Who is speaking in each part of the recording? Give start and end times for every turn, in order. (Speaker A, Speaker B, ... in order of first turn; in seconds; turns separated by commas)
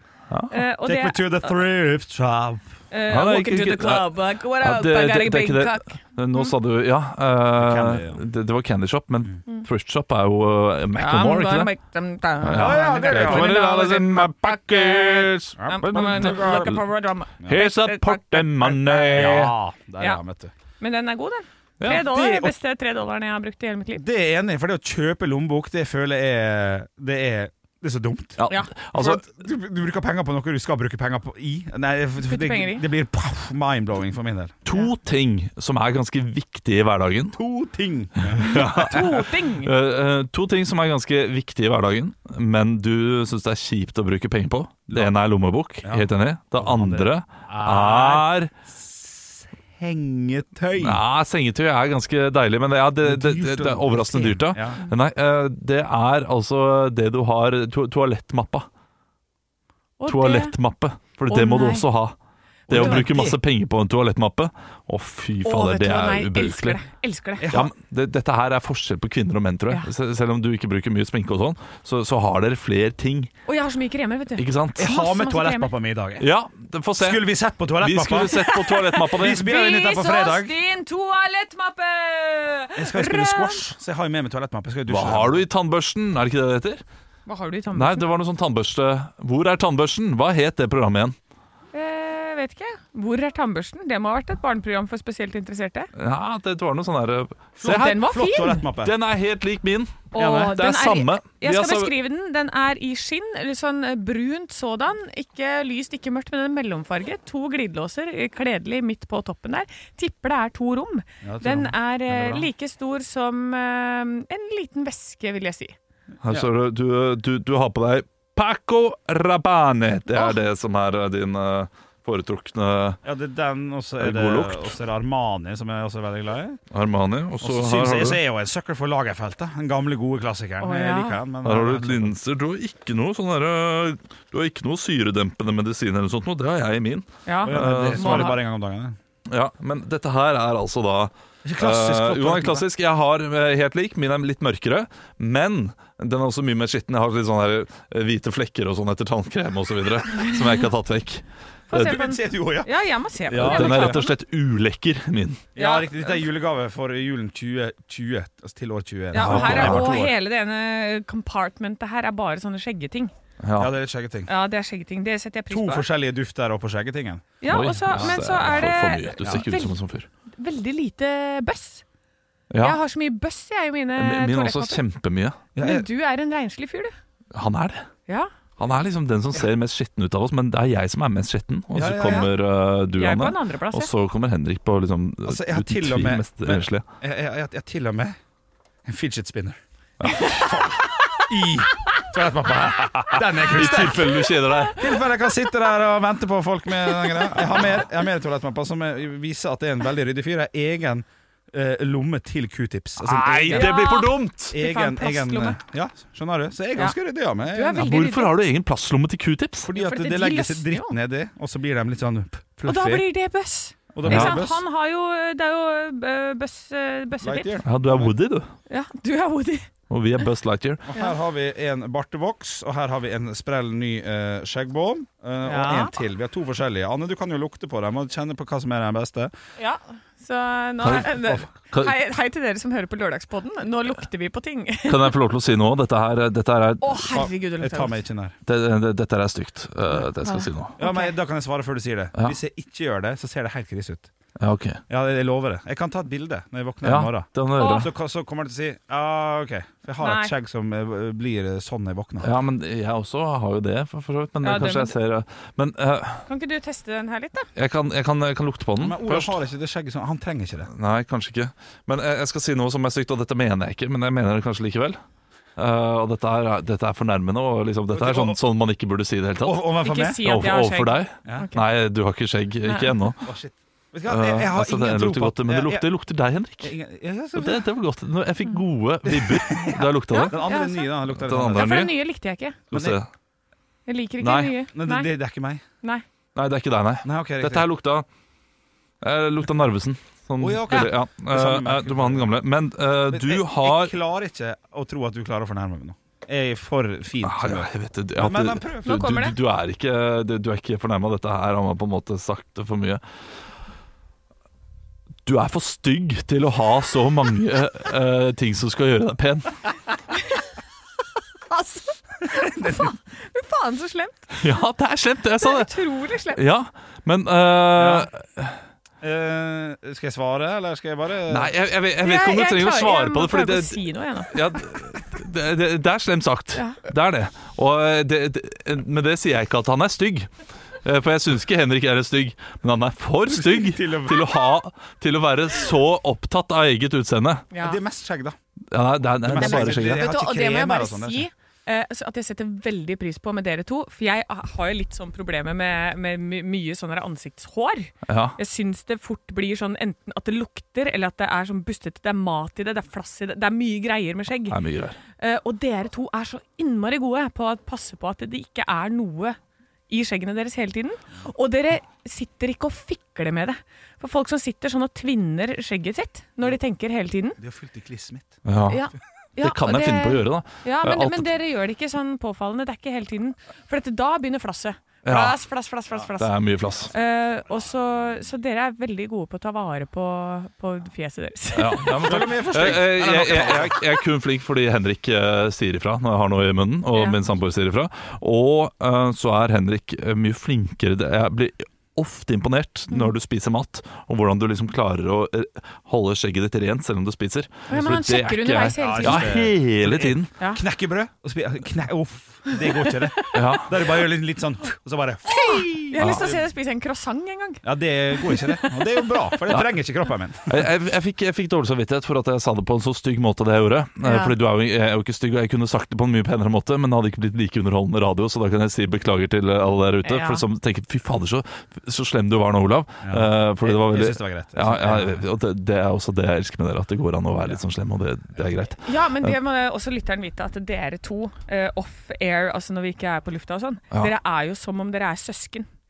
Speaker A: 0.3-0.6, Speaker B: 0.5-1.5, Speaker C: 0.8-2.7, Speaker B: 2.9-6.5, Speaker A: 3.1-11.7, Speaker C: 7.6-8.2, Speaker B: 10.9-19.4, Speaker A: 12.4-16.8, Speaker C: 12.5-13.6, Speaker C: 15.6-16.8, Speaker A: 17.4-19.5, Speaker C: 19.1-20.5, Speaker B: 20.8-24.0, Speaker A: 21.8-22.5, Speaker C: 21.8-22.1, Speaker C: 23.9-28.4, Speaker A: 28.4-29.2, Speaker C: 28.9-34.6, Speaker B: 32.3-32.8, Speaker A: 34.6-37.4, Speaker C: 37.3-38.8, Speaker A: 38.2-48.5, Speaker B: 38.4-39.7, Speaker C: 45.8-51.0, Speaker A: 50.8-58.7, Speaker C: 53.0-54.8, Speaker B: 60.0-60.5, Speaker A: 60.1-62.1, Speaker B: 61.3-61.9, Speaker B: 62.7-63.1, Speaker A: 62.7-66.8, Speaker C: 62.7-63.4, Speaker B: 65.4-67.6, Speaker C: 67.4-67.7, Speaker A: 67.5-73.3, Speaker B: 73.5-75.7, Speaker A: 74.4-74.9, Speaker C: 74.8-76.3, Speaker A: 76.2-77.2, Speaker C: 77.0-78.3, Speaker A: 77.8-79.5, Speaker B: 78.3-83.6, Speaker C: 79.2-80.5, Speaker C: 82.8-85.5, Speaker A: 84.9-86.8, Speaker B: 87.2-88.1, Speaker A: 87.7-91.1, Speaker B: 91.7-95.9, Speaker A: 96.0-98.0, Speaker C: 97.6-98.9, Speaker B: 97.6-98.6, Speaker A: 98.8-101.9, Speaker B: 100.1-115.7, Speaker C: 100.2-100.5, Speaker C: 111.2-112.5, Speaker A: 116.2-123.0, Speaker C: 123.0-126.6, Speaker A: 124.0-124.7, Speaker A: 126.7-128.2, Speaker C: 127.4-132.1, Speaker B: 130.6-131.2, Speaker A: 131.4-138.4, Speaker B: 137.2-138.4, Speaker C: 137.4-139.0, Speaker A: 139.3-152.0, Speaker C: 141.4-142.7, Speaker B: 151.7-154.1, Speaker C: 151.7-152.7, Speaker C: 153.3-154.0, Speaker A: 153.3-155.5, Speaker B: 155.6-156.2, Speaker C: 155.6-160.1, Speaker B: 159.1-163.1, Speaker A: 159.2-159.9, Speaker A: 163.4-163.7, Speaker C: 163.6-164.3, Speaker B: 164.3-165.9, Speaker C: 165.5-167.2, Speaker B: 167.4-169.8, Speaker A: 167.5-170.1, Speaker C: 167.9-168.6, Speaker B: 170.4-171.8, Speaker A: 172.5-172.8, Speaker B: 172.6-174.8, Speaker A: 174.0-175.4, Speaker C: 175.6-175.8, Speaker B: 175.6-176.9, Speaker A: 177.3-177.9, Speaker A: 178.6-186.8, Speaker C: 181.7-182.3, Speaker B: 182.9-183.9, Speaker C: 185.2-188.2, Speaker C: 188.8-189.6, Speaker A: 190.0-190.8, Speaker C: 191.3-194.2, Speaker A: 193.1-194.9, Speaker C: 194.8-203.9, Speaker A: 203.0-204.5, Speaker B: 203.5-205.6, Speaker C: 204.5-207.9, Speaker B: 206.8-208.4, Speaker A: 207.7-209.7, Speaker C: 209.6-213.1, Speaker B: 209.7-210.9, Speaker B: 212.7-217.6, Speaker C: 213.9-214.6, Speaker A: 214.0-214.4, Speaker C: 217.2-218.1, Speaker A: 217.6-218.5, Speaker B: 218.7-219.7, Speaker A: 219.9-220.8, Speaker C: 220.9-229.3, Speaker B: 225.4-225.9, Speaker B: 229.6-235.1, Speaker A: 230.8-231.9, Speaker A: 234.8-237.3, Speaker B: 236.8-238.0, Speaker C: 237.2-238.3, Speaker A: 238.4-240.8, Speaker B: 240.2-241.1, Speaker C: 240.8-244.1, Speaker A: 244.4-244.8, Speaker C: 244.9-252.3, Speaker A: 246.8-247.9, Speaker B: 247.6-247.9, Speaker B: 250.0-250.3, Speaker A: 252.2-256.3, Speaker B: 254.4-254.9, Speaker B: 256.3-257.5, Speaker A: 257.6-259.3, Speaker C: 258.8-260.7, Speaker A: 260.7-265.0, Speaker A: 265.6-269.6, Speaker C: 267.9-268.4, Speaker C: 269.4-270.2, Speaker B: 269.8-271.6, Speaker A: 270.2-273.2, Speaker B: 272.6-272.9, Speaker C: 273.2-275.9, Speaker A: 274.1-276.8, Speaker C: 276.6-277.6, Speaker A: 277.3-280.4, Speaker C: 279.1-281.8, Speaker B: 280.1-280.9, Speaker A: 281.1-281.9, Speaker B: 281.5-282.6, Speaker A: 282.7-283.1, Speaker C: 282.7-283.0, Speaker B: 283.9-285.1, Speaker A: 284.2-284.5, Speaker C: 284.7-285.6, Speaker A: 286.3-288.1, Speaker C: 287.0-287.7, Speaker A: 289.0-293.9, Speaker C: 290.4-292.3, Speaker C: 293.1-299.0, Speaker A: 297.2-303.0, Speaker B: 298.8-299.4, Speaker A: 305.2-309.6, Speaker B: 311.5-314.5, Speaker C: 312.4-312.9, Speaker A: 314.4-315.7, Speaker B: 315.4-316.4, Speaker A: 316.3-318.6, Speaker C: 317.7-318.1, Speaker C: 319.0-321.5, Speaker A: 321.3-330.3, Speaker B: 322.0-324.4, Speaker B: 326.5-326.8, Speaker A: 330.8-337.5, Speaker C: 333.3-334.3, Speaker B: 337.5-337.8, Speaker C: 337.6-338.4, Speaker A: 338.7-340.1, Speaker C: 339.2-341.3, Speaker B: 339.4-354.6, Speaker A: 348.1-348.4, Speaker A: 354.5-355.0, Speaker B: 355.2-359.4, Speaker B: 359.9-367.4, Speaker C: 367.4-368.4, Speaker A: 368.4-368.8, Speaker B: 368.7-376.3, Speaker A: 369.4-371.3, Speaker A: 375.0-375.4, Speaker A: 376.2-376.9, Speaker B: 376.9-382.2, Speaker A: 381.5-400.3, Speaker C: 382.0-383.9, Speaker B: 386.9-387.2, Speaker B: 397.7-399.5, Speaker C: 398.8-406.4, Speaker B: 402.9-403.4, Speaker A: 403.3-403.8, Speaker B: 405.3-407.6, Speaker A: 406.0-406.3, Speaker C: 407.6-410.6, Speaker B: 408.2-408.9, Speaker A: 410.5-429.4, Speaker B: 414.0-414.3, Speaker B: 420.0-420.4, Speaker C: 423.0-425.2, Speaker B: 428.8-435.7